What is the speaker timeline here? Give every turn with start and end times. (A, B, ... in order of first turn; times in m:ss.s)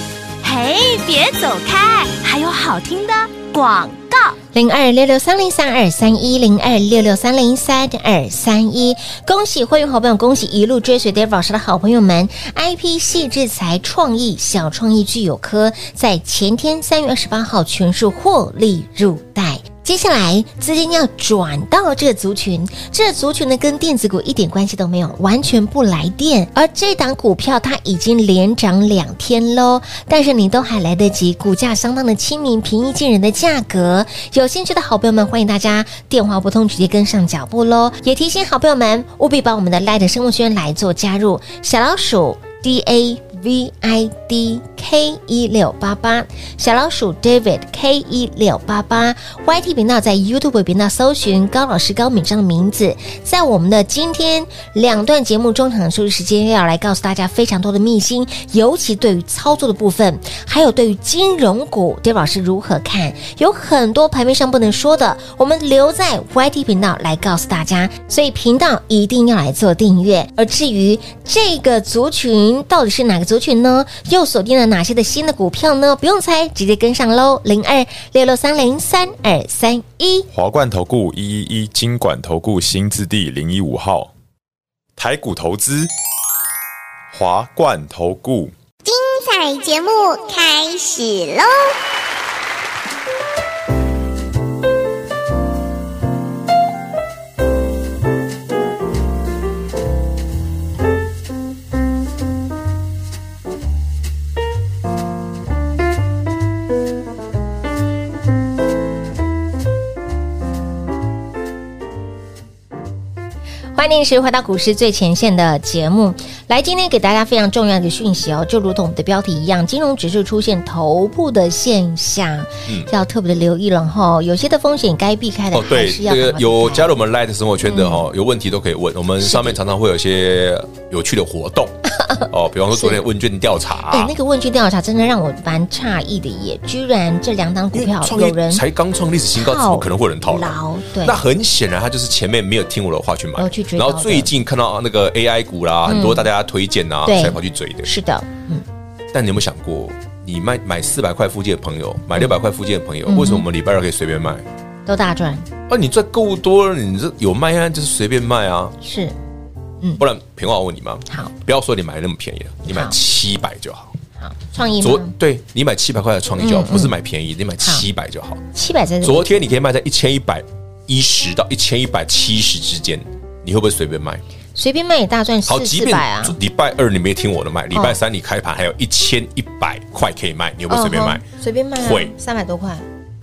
0:00.4-0:04.4 A
0:04.5-1:20.3 B
1:20.3-1:24.1 C
1:25.0-1:25.9 C
1:27.1-1:28.5 C
1:28.8-1:31.7 D
1:53.8-2:06.9 B
2:05.5-2:11.8 E
2:07.6-2:08.0 B
2:09.2-2:09.6 B
2:12.0-2:13.0 B
2:12.3-2:14.1 E
2:13.9-2:18.6 B
2:17.7-2:27.9 E
2:19.4-2:21.2 B
2:23.4-2:24.3 B
2:25.9-2:26.3 B
2:27.0-2:28.6 B
2:29.1-2:34.5 E
2:33.1-2:33.4 B
2:34.9-2:35.5 B
2:35.7-2:38.8 E
2:38.8-2:39.1 B
2:40.0-2:44.0 E
2:42.7-2:43.0 B
2:44.2-2:45.1 B
2:44.8-2:48.4 E
2:46.4-2:47.0 B
2:48.5-2:49.4 B
2:49.0-2:54.2 E
2:54.6-2:56.4 B
2:55.5-3:01.2 E
3:00.7-3:02.8 B
3:01.8-3:02.1 E